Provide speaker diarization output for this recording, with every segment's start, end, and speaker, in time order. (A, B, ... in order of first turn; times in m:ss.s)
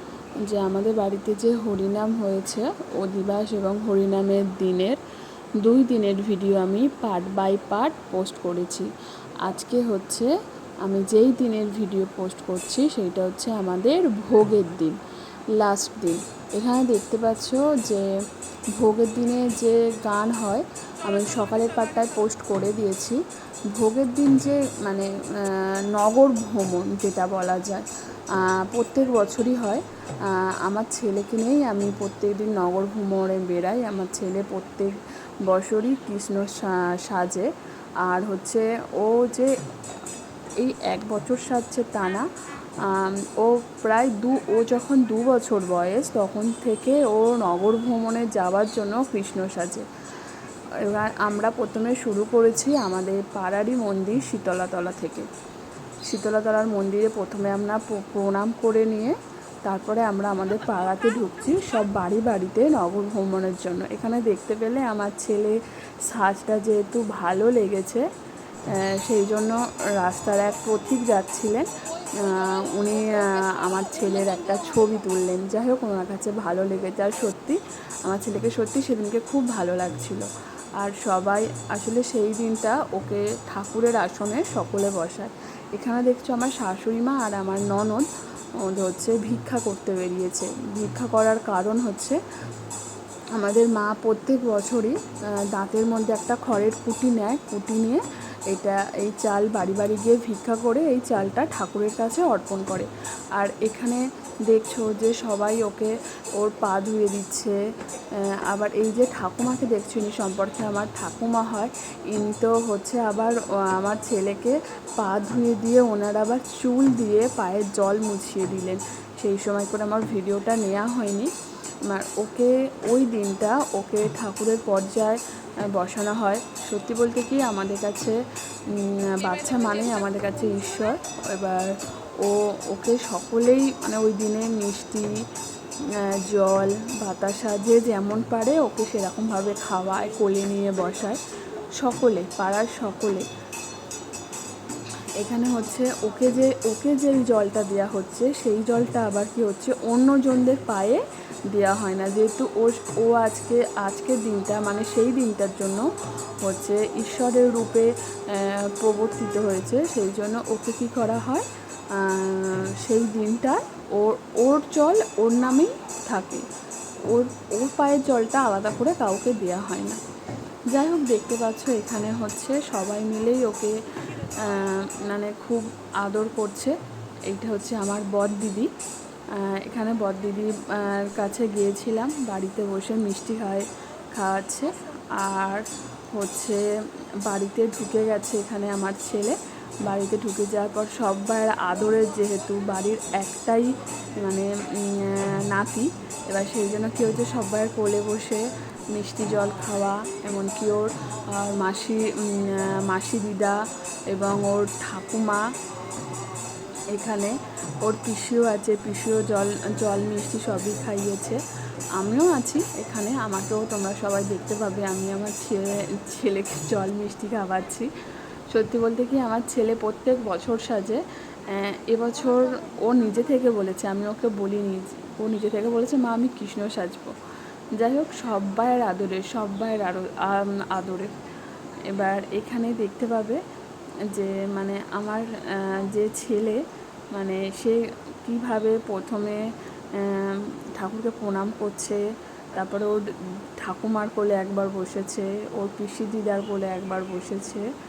0:00.5-0:05.0 A
0:05.6-0:15.0 A
0:15.6-0:18.1 A
0:18.8-0:37.5 A
0:38.0-0:39.6 A
0:40.6-0:42.3 A
0:42.8-0:49.8 A
0:50.8-0:55.3 A
0:56.1-1:08.1 A
1:08.7-1:28.1 A
1:28.6-1:32.2 A
1:33.4-2:01.3 A
2:01.8-2:15.2 A
2:15.8-2:21.2 A
2:21.8-2:23.2 A
2:25.2-2:35.9 A
2:36.4-2:46.4 A
2:47.1-2:50.0 A
2:50.7-2:56.8 A
2:57.3-2:58.7 A
2:59.3-3:06.6 A
3:07.2-3:23.6 A
3:24.1-3:25.5 A
3:26.9-3:31.4 A
3:32.0-3:37.9 A
3:38.5-3:47.2 A
3:47.8-3:51.1 A
3:51.9-3:53.4 A
3:54.0-3:56.6 A
3:57.1-4:02.0 A
4:02.5-4:03.0 A
4:03.6-4:07.7 A